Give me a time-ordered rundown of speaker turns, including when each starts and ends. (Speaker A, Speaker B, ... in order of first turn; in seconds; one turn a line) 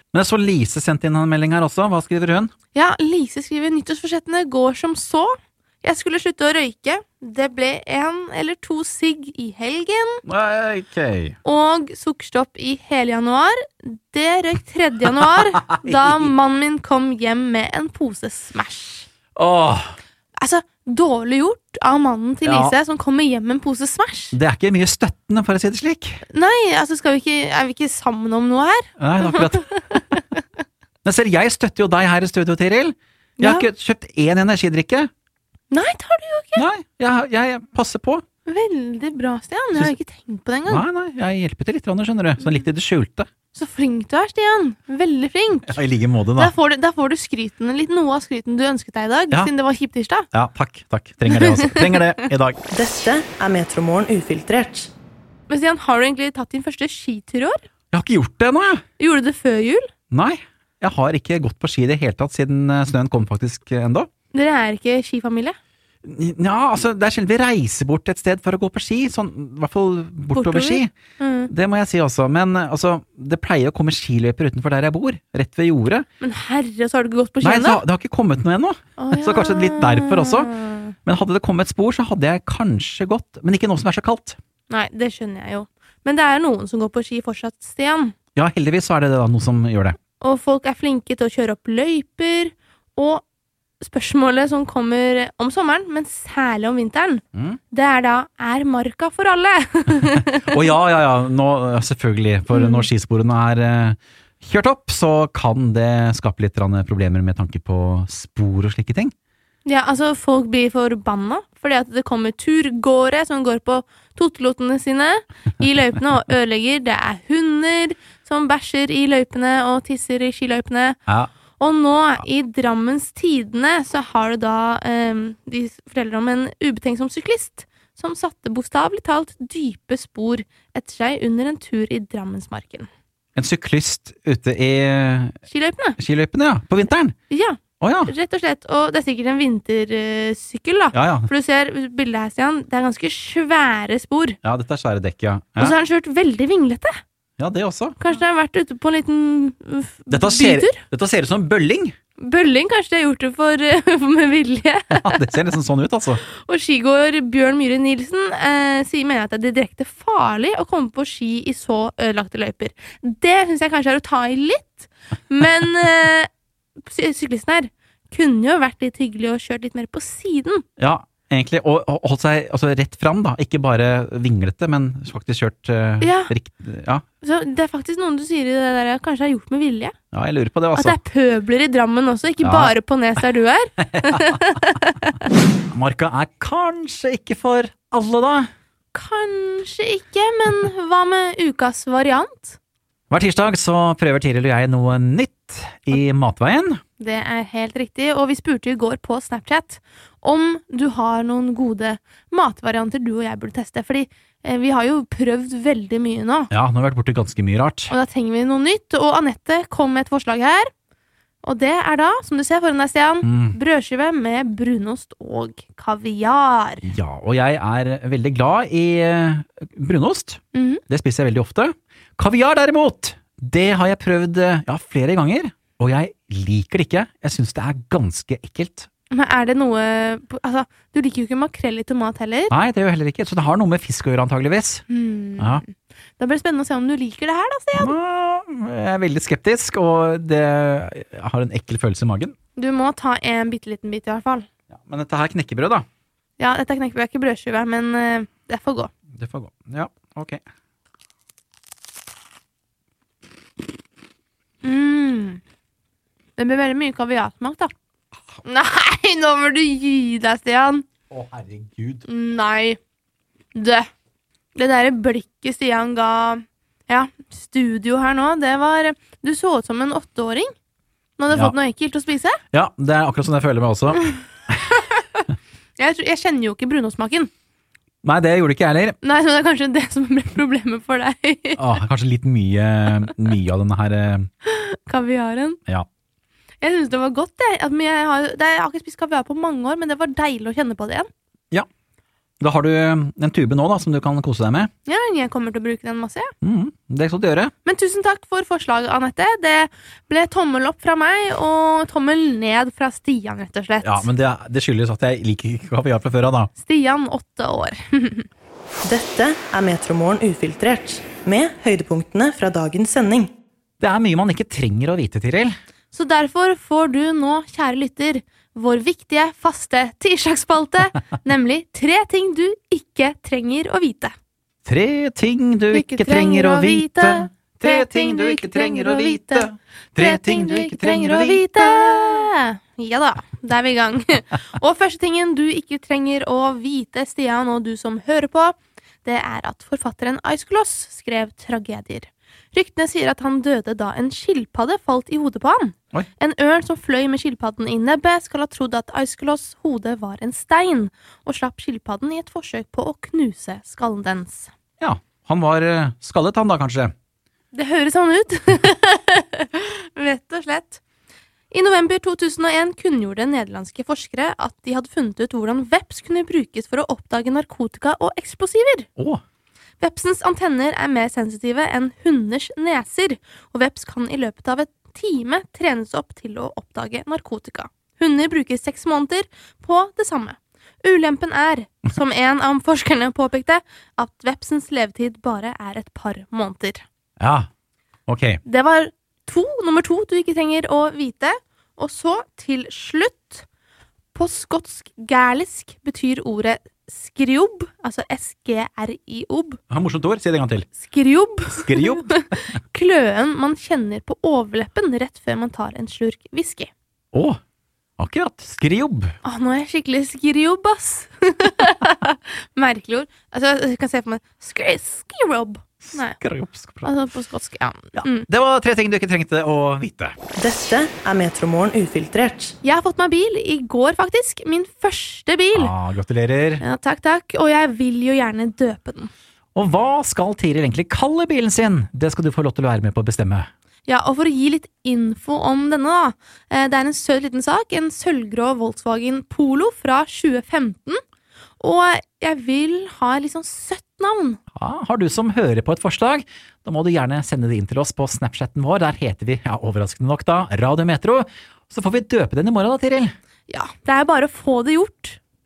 Speaker A: 0.1-2.5
Speaker B: 2.7-10.2
Speaker A: 10.3-11.4
Speaker B: 11.4-19.1
Speaker A: 15.2-16.3
Speaker A: 19.4-20.0
Speaker B: 20.4-24.4
Speaker A: 22.4-22.8
Speaker A: 24.3-26.2
Speaker B: 26.3-30.4
Speaker A: 29.0-29.7
Speaker A: 31.0-35.1
Speaker B: 33.4-33.7
Speaker B: 35.7-36.7
Speaker A: 36.6-38.2
Speaker B: 38.5-40.8
Speaker A: 40.7-43.3
Speaker B: 43.5-45.8
Speaker A: 45.7-46.5
Speaker B: 46.4-50.3
Speaker A: 50.3-52.6
Speaker B: 51.3-52.2
Speaker C: 52.7-54.9
Speaker B: 55.5-57.7
Speaker A: 57.9-58.8
Speaker B: 59.0-59.9
Speaker A: 60.1-64.1
Speaker B: 64.3-65.6
Speaker A: 66.0-70.9
Speaker B: 70.3-71.5
Speaker A: 71.5-76.1
Speaker B: 76.2-77.8
Speaker A: 77.4-84.4
Speaker B: 79.0-80.9
Speaker B: 84.7-88.2
Speaker A: 88.3-90.0
Speaker B: 90.2-93.2
Speaker B: 93.8-100.5
Speaker A: 97.3-97.6
Speaker A: 100.4-109.1
Speaker B: 102.5-102.9
Speaker B: 109.7-121.0
Speaker B: 121.6-132.9
Speaker A: 133.4-135.4
Speaker B: 135.5-136.0
Speaker A: 136.0-137.2
Speaker B: 137.3-144.4
Speaker A: 137.8-138.1
Speaker A: 140.9-141.3
Speaker A: 144.4-145.8
Speaker B: 145.6-147.0
Speaker A: 147.4-148.0
Speaker B: 148.0-150.8
Speaker A: 150.1-151.9
Speaker B: 152.2-155.2
Speaker A: 154.9-156.2
Speaker B: 156.2-166.3
Speaker B: 166.8-170.7
Speaker A: 170.8-177.0
Speaker B: 176.0-176.3
Speaker B: 177.2-179.9
Speaker A: 180.1-181.0
Speaker B: 180.8-185.2
Speaker A: 182.4-182.8
Speaker A: 184.0-184.3
Speaker A: 185.7-188.5
Speaker B: 188.9-192.6
Speaker A: 193.1-196.8
Speaker B: 197.0-206.5
Speaker A: 206.5-207.9
Speaker B: 207.9-210.7
Speaker B: 211.4-216.9
Speaker A: 213.2-213.6
Speaker A: 216.8-228.9
Speaker B: 220.5-220.8
Speaker B: 229.1-232.5
Speaker A: 232.5-234.8
Speaker B: 234.9-237.9
Speaker A: 235.4-235.6
Speaker A: 237.8-242.3
Speaker B: 242.6-244.5
Speaker A: 244.8-245.8
Speaker B: 246.4-248.9
Speaker A: 249.2-250.4
Speaker B: 254.6-255.4
Speaker B: 256.4-257.7
Speaker B: 258.4-260.9
Speaker A: 261.1-262.0
Speaker B: 262.1-262.8
Speaker B: 263.6-263.9
Speaker B: 264.6-270.5
Speaker B: 271.2-272.4
Speaker A: 271.3-271.6
Speaker A: 272.5-274.7
Speaker B: 274.7-275.2
Speaker B: 275.8-277.3
Speaker A: 278.0-279.0
Speaker B: 279.0-281.6
Speaker A: 281.6-284.3
Speaker B: 284.4-285.6
Speaker B: 286.6-291.1
Speaker A: 292.4-294.7
Speaker B: 294.9-296.3
Speaker A: 296.4-297.5
Speaker B: 297.6-304.1
Speaker A: 303.8-306.5
Speaker B: 306.6-308.3
Speaker C: 308.8-313.3
Speaker A: 313.8-315.6
Speaker B: 315.9-324.1
Speaker A: 324.7-332.3
Speaker B: 325.7-354.5
Speaker A: 354.8-356.9
Speaker B: 357.5-360.8
Speaker B: 361.5-368.9
Speaker B: 369.8-386.8
Speaker A: 387.2-387.5
Speaker A: 388.1-388.4
Speaker B: 388.4-393.5
Speaker B: 394.1-399.6
Speaker A: 399.7-400.7
Speaker B: 400.8-406.7
Speaker A: 401.6-402.6
Speaker A: 407.1-407.4
Speaker A: 408.0-409.1
Speaker B: 409.2-416.2
Speaker A: 415.8-416.9
Speaker B: 416.8-418.3
Speaker A: 418.0-420.1
Speaker C: 420.4-422.6
Speaker B: 422.6-425.7
Speaker A: 425.5-426.6
Speaker B: 426.6-429.1
Speaker A: 429.6-433.5
Speaker B: 433.9-441.0
Speaker B: 441.6-444.4
Speaker A: 444.6-453.1
Speaker B: 453.5-455.2